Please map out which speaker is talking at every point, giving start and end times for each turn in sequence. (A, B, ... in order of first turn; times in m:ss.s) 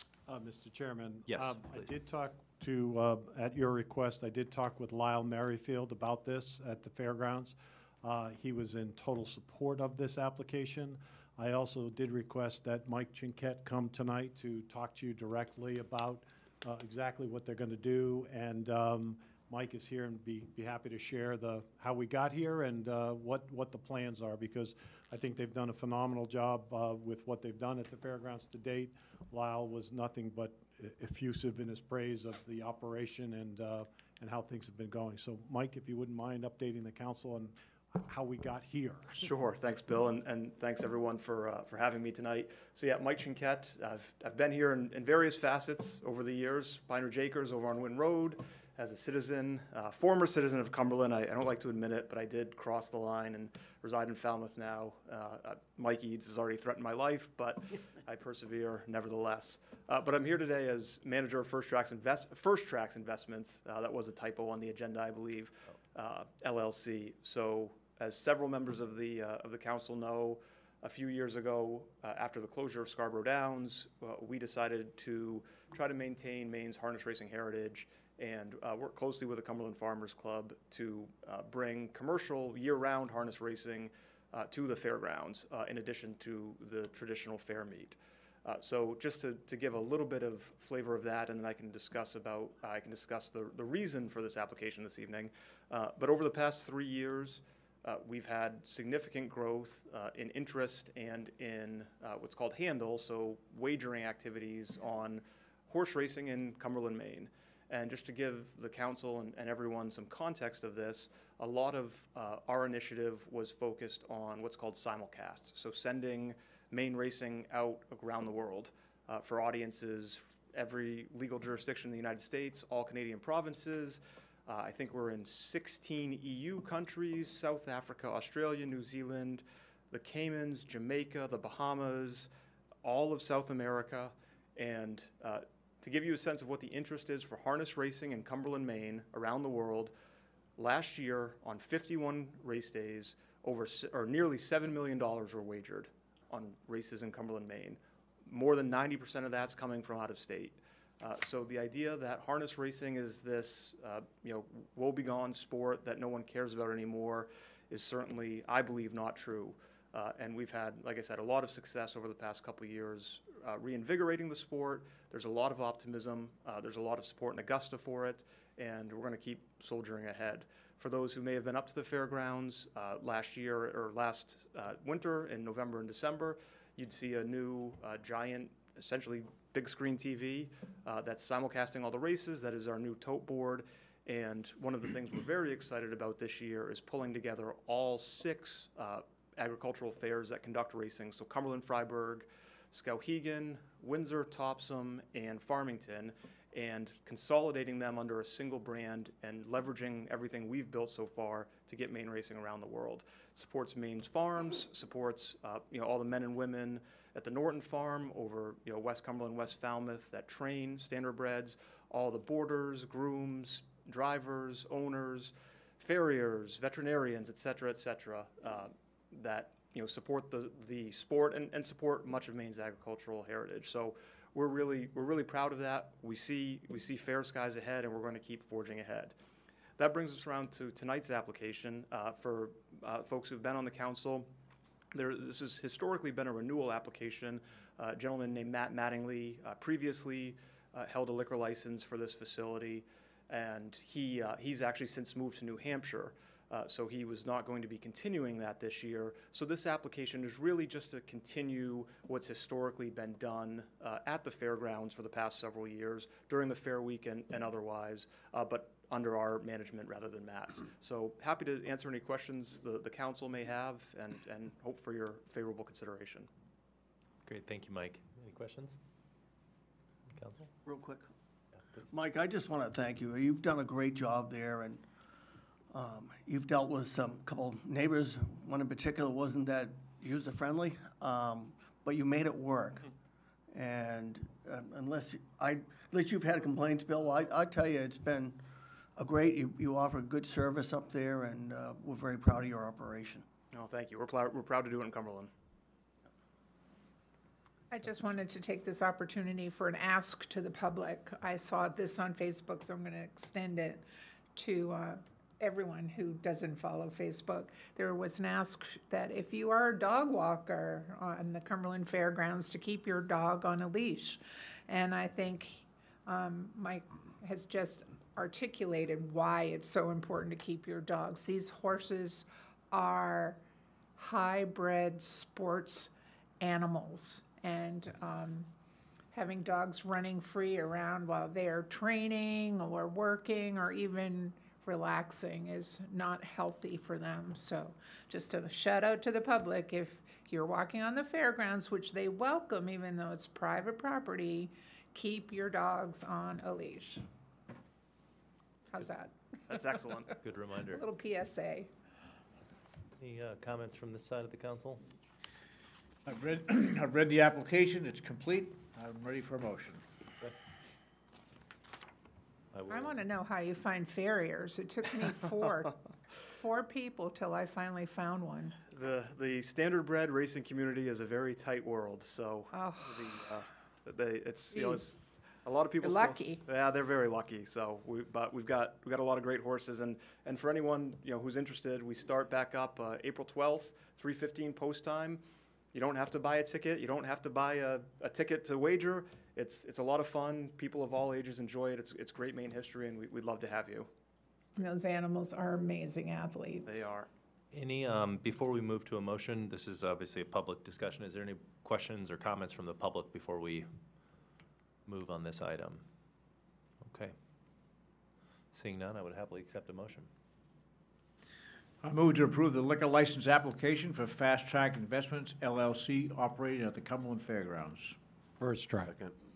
0:00.3-0:39.3 A
0:01.3-0:01.9 B
0:39.2-2:12.3 C
2:12.8-2:19.9 C
2:20.6-3:49.2 C
3:49.8-3:54.3 C
3:54.9-4:26.3 C
4:27.2-4:28.8 B
4:30.1-4:30.5 B
4:30.6-4:31.1 D
4:31.9-4:34.8 D
4:35.7-4:42.9 D
4:43.5-4:48.4 D
4:49.0-4:53.2 D
4:53.5-4:55.3 C
4:57.7-5:03.8 E
5:04.3-5:23.4 E
5:24.0-5:28.5 E
5:29.1-5:47.0 E
5:48.7-5:49.1 E
5:49.5-5:50.1 C
5:50.2-5:50.8 B
5:50.7-5:51.7 E
5:53.0-5:54.8 B
5:56.0-5:59.8 F
6:02.5-6:03.0 B
6:02.7-6:08.6 E
6:08.7-6:33.9 C
6:12.5-6:13.1 E
6:14.5-6:15.3 E
6:15.8-6:16.4 E
6:34.6-6:36.9 E
6:36.6-6:37.1 C
6:37.5-6:43.7 B
6:44.9-6:45.8 B
6:46.8-6:47.1 B
6:48.5-6:50.1 B
6:51.8-6:58.0 F
6:58.4-6:58.9 A